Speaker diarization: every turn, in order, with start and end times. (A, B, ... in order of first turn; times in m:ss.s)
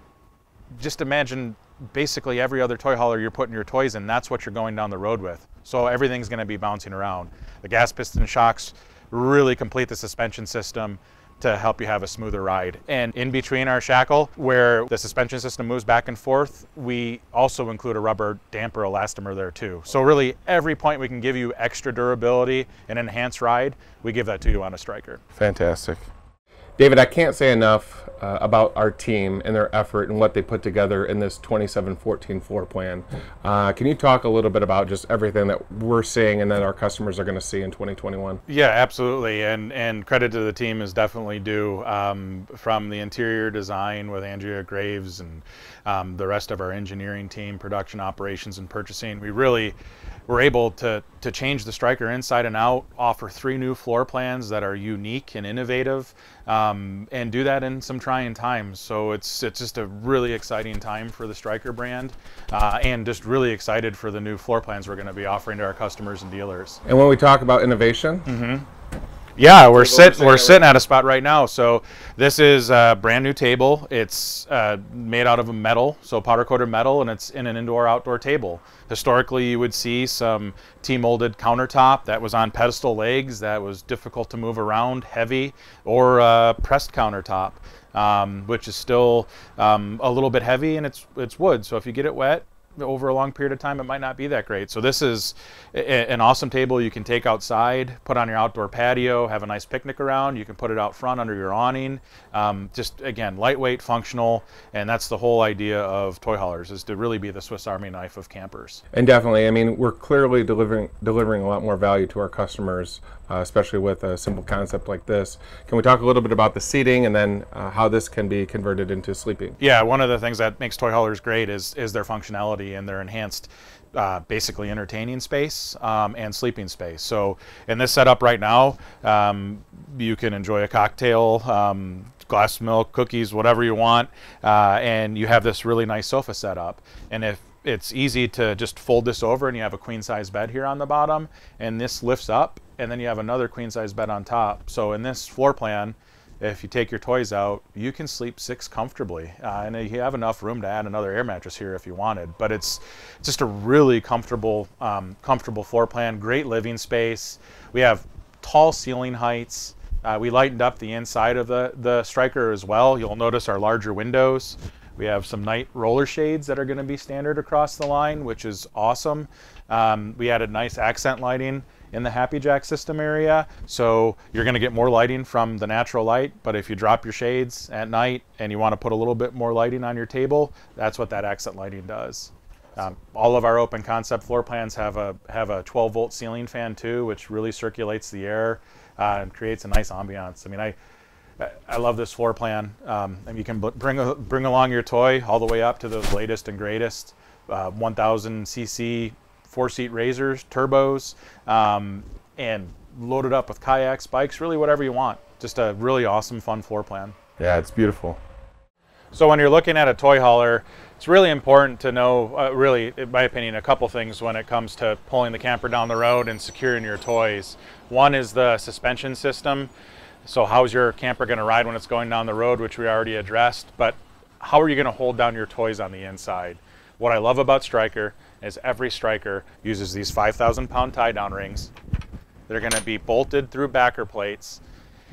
0:00.7-0:25.2 A
0:25.4-0:26.1 B
0:26.8-0:38.4 B
0:38.5-0:49.8 A
0:50.3-1:06.8 A
1:06.8-1:08.3 B
1:08.3-1:08.7 A
1:09.4-1:48.8 A
1:09.7-1:10.6 B
1:48.9-1:59.6 B
1:59.6-3:10.8 A
3:11.4-3:27.2 A
3:27.4-3:28.2 B
3:29.1-3:39.7 A
3:40.2-3:51.7 A
3:52.5-3:54.6 A